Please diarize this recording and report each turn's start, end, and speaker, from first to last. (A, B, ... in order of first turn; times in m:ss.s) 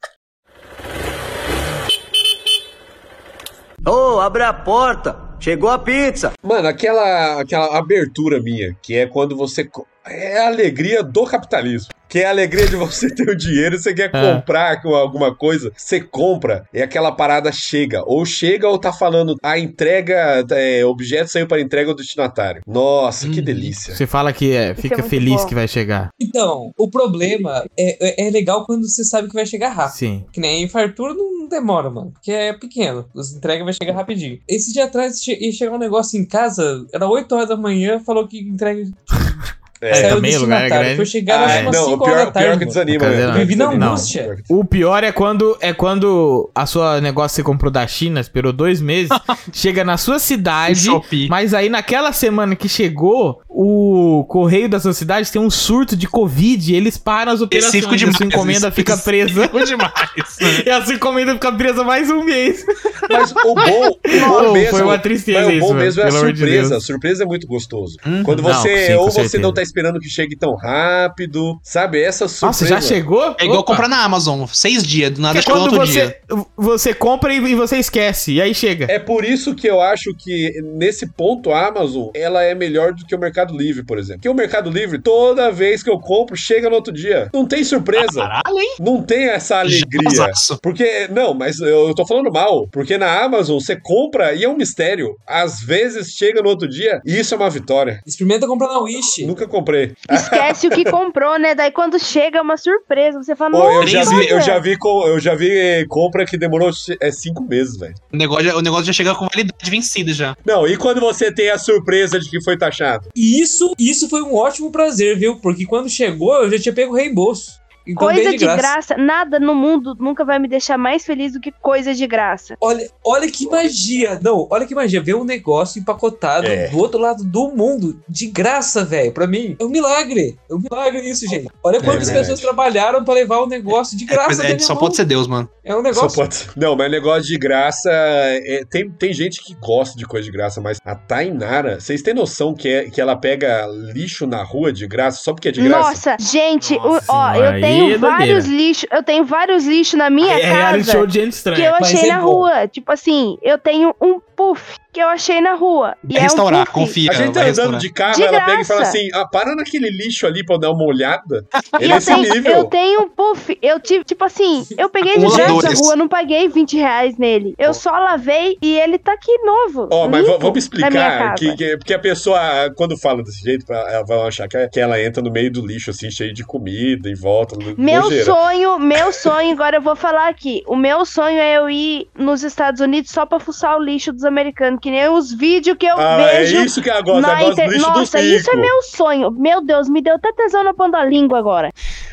0:03.8-0:06.3 A
0:06.4-0:24.0 B
0:14.1-0:14.4 C
0:23.2-0:23.8 D
0:23.9-0:26.1 C
0:24.8-0:25.5 E
0:26.2-0:39.3 F
0:29.9-0:30.3 C
0:39.8-0:40.3 B
0:39.9-0:41.8 C
0:39.9-0:44.3 F
0:41.3-0:44.5 B
0:42.9-0:59.6 C
0:50.7-0:51.3 D
0:57.5-1:00.6 D
1:00.4-1:03.2 C
1:03.1-1:13.0 B
1:04.1-1:06.8 C
1:08.0-1:08.4 D
1:08.4-1:09.6 C
1:12.4-1:13.9 C
1:13.4-1:16.1 D
1:15.3-1:18.9 C
1:18.9-1:38.0 B
1:28.0-1:28.8 D
1:29.6-1:30.6 D
1:38.1-1:39.3 F
1:39.2-1:40.9 B
1:40.1-1:44.6 E
1:43.5-1:48.0 B
1:43.8-1:44.4 D
1:48.1-1:50.4 D
1:50.4-1:53.1 B
1:53.2-1:58.8 F
1:58.0-2:02.6 E
2:02.6-2:15.0 F
2:06.4-2:06.8 B
2:11.8-2:12.5 B
2:11.8-2:12.2 D
2:14.1-2:15.5 D
2:15.6-2:16.2 F
2:15.9-2:26.0 B
2:25.6-2:37.0 E
2:27.0-2:28.5 C
2:30.2-2:31.7 C
2:31.8-2:32.5 F
2:36.1-2:37.9 D
2:37.1-2:42.7 B
2:38.0-2:39.0 E
2:41.6-2:42.3 D
2:41.8-2:51.6 E
2:45.1-2:45.9 D
2:45.2-2:45.8 F
2:49.9-2:58.4 B
2:57.8-3:11.7 E
3:06.0-3:08.7 B